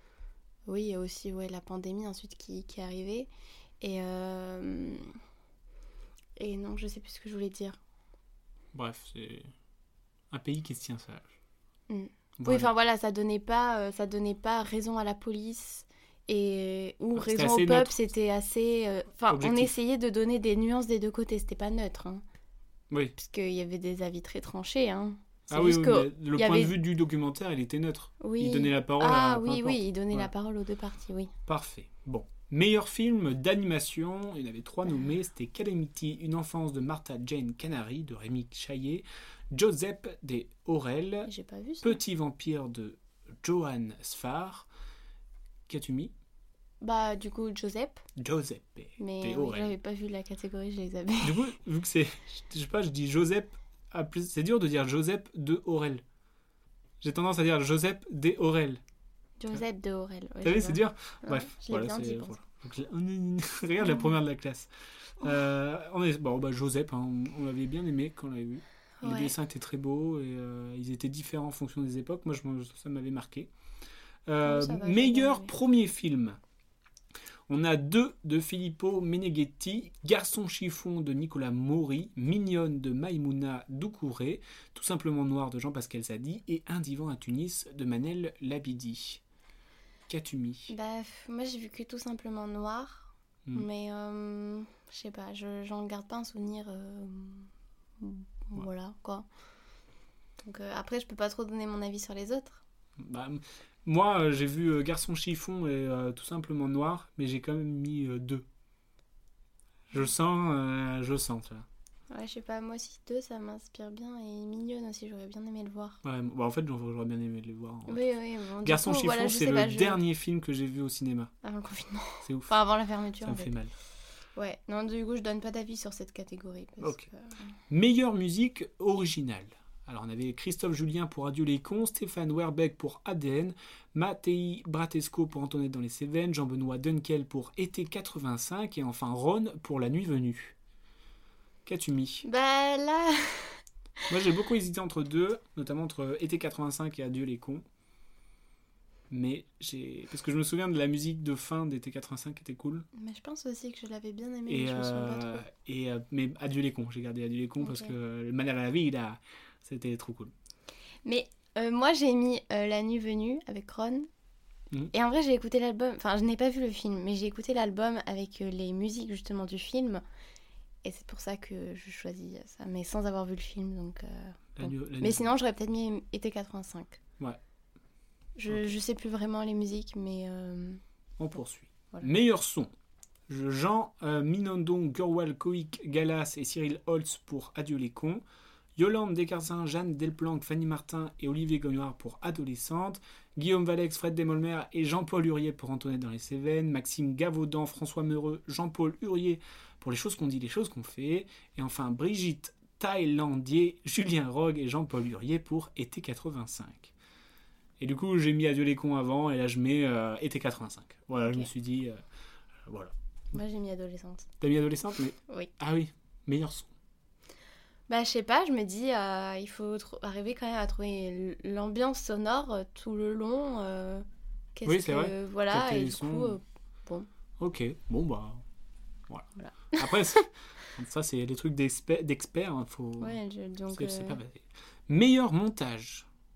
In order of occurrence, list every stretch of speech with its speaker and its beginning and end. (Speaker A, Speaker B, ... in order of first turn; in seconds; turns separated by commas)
Speaker A: 0.7-3.3, Speaker A: 3.8-5.1, Speaker A: 6.4-7.8, Speaker B: 8.7-9.5, Speaker B: 10.3-11.4, Speaker A: 11.9-22.2, Speaker B: 12.4-12.7, Speaker B: 17.1-18.0, Speaker B: 19.3-19.7, Speaker B: 22.9-23.2, Speaker A: 23.2-26.8, Speaker B: 25.5-30.3, Speaker A: 28.2-31.3, Speaker B: 31.5-41.3, Speaker A: 41.2-42.0, Speaker B: 41.8-44.7, Speaker B: 45.7-46.1, Speaker A: 46.8-48.0, Speaker B: 48.2-49.7, Speaker A: 49.0-51.4, Speaker B: 51.2-56.0, Speaker B: 57.0-58.8, Speaker A: 59.4-62.4, Speaker B: 60.4-73.5, Speaker A: 63.8-64.1, Speaker A: 69.0-69.3, Speaker B: 74.3-76.4, Speaker A: 74.4-75.5, Speaker B: 77.5-89.2, Speaker B: 90.1-90.7, Speaker A: 90.7-99.3, Speaker A: 100.4-102.6, Speaker B: 103.0-108.5, Speaker B: 109.9-111.7, Speaker A: 112.1-116.0, Speaker B: 116.0-118.1, Speaker A: 117.9-120.0, Speaker B: 118.6-121.3, Speaker A: 121.4-123.5, Speaker B: 122.2-122.5, Speaker B: 123.2-123.7, Speaker A: 124.4-127.4, Speaker B: 126.8-127.1, Speaker B: 127.7-140.6, Speaker B: 141.7-142.3, Speaker A: 142.2-143.6, Speaker B: 144.1-147.6, Speaker B: 149.1-152.9, Speaker A: 152.9-155.4, Speaker B: 154.5-160.3, Speaker A: 157.6-157.9, Speaker A: 161.1-164.1, Speaker A: 164.9-170.0, Speaker A: 170.8-177.0, Speaker B: 174.6-175.3, Speaker A: 178.4-180.8, Speaker B: 181.2-182.7, Speaker B: 183.3-188.2, Speaker B: 188.8-206.9, Speaker B: 207.8-212.0, Speaker B: 212.7-212.9, Speaker A: 213.3-214.3, Speaker B: 214.4-216.7, Speaker A: 217.9-227.1, Speaker B: 224.7-226.4, Speaker B: 227.4-228.4, Speaker B: 229.1-236.1, Speaker A: 229.4-230.3, Speaker A: 233.0-234.2